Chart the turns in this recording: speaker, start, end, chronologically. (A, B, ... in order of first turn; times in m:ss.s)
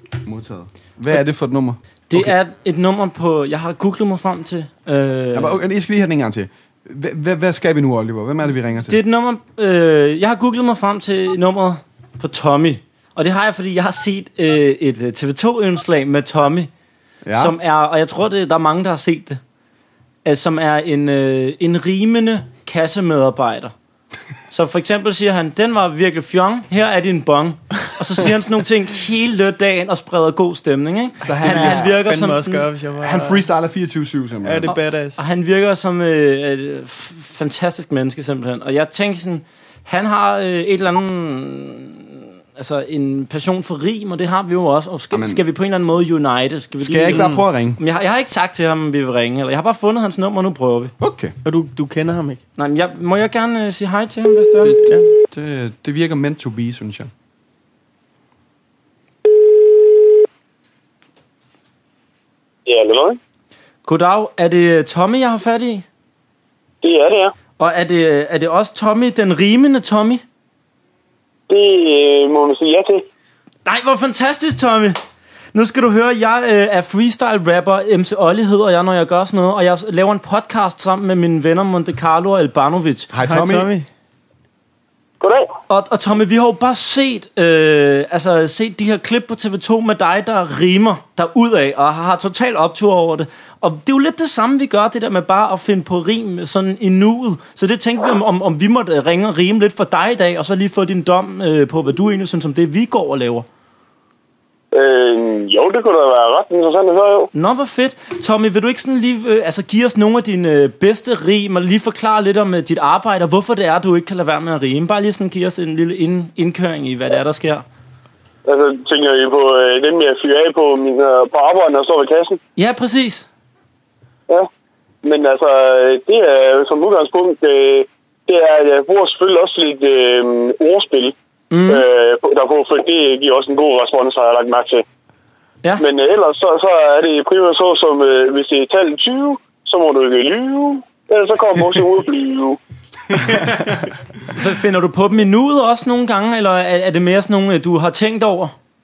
0:00.2-0:02.3 A
0:02.1-0:05.6 B
0:05.3-0:09.0 A
0:08.9-0:16.7 B
0:17.2-0:17.5 A
0:17.3-0:19.4 B
0:20.2-0:23.7 B
0:24.5-0:32.7 B
0:31.2-0:32.0 A
0:31.4-0:33.4 C
0:33.0-0:34.7 A
0:34.4-0:35.2 C
0:34.7-0:50.9 B
0:45.1-0:45.4 A
0:46.8-0:47.8 A
0:47.1-0:47.4 C
0:51.0-0:51.3 A
0:51.4-0:52.4 C
0:52.6-0:54.8 B
0:54.6-0:57.1 A
0:54.8-0:55.0 C
1:02.6-1:03.2 D
1:03.8-1:05.8 B
1:06.8-1:07.3 D
1:07.6-1:10.2 B
1:11.5-1:13.0 D
1:13.6-1:15.0 B
1:15.5-1:23.1 B
1:23.1-1:23.7 A
1:23.2-1:23.8 C
1:25.2-1:25.5 D
1:25.7-1:43.4 B
1:44.7-1:47.3 D
1:47.3-1:57.6 B
1:58.4-2:02.4 D
2:02.6-2:03.3 B
2:05.0-2:11.1 D
2:11.5-2:11.8 B
2:11.7-2:14.8 D
2:15.8-2:22.6 D
2:24.3-2:28.5 B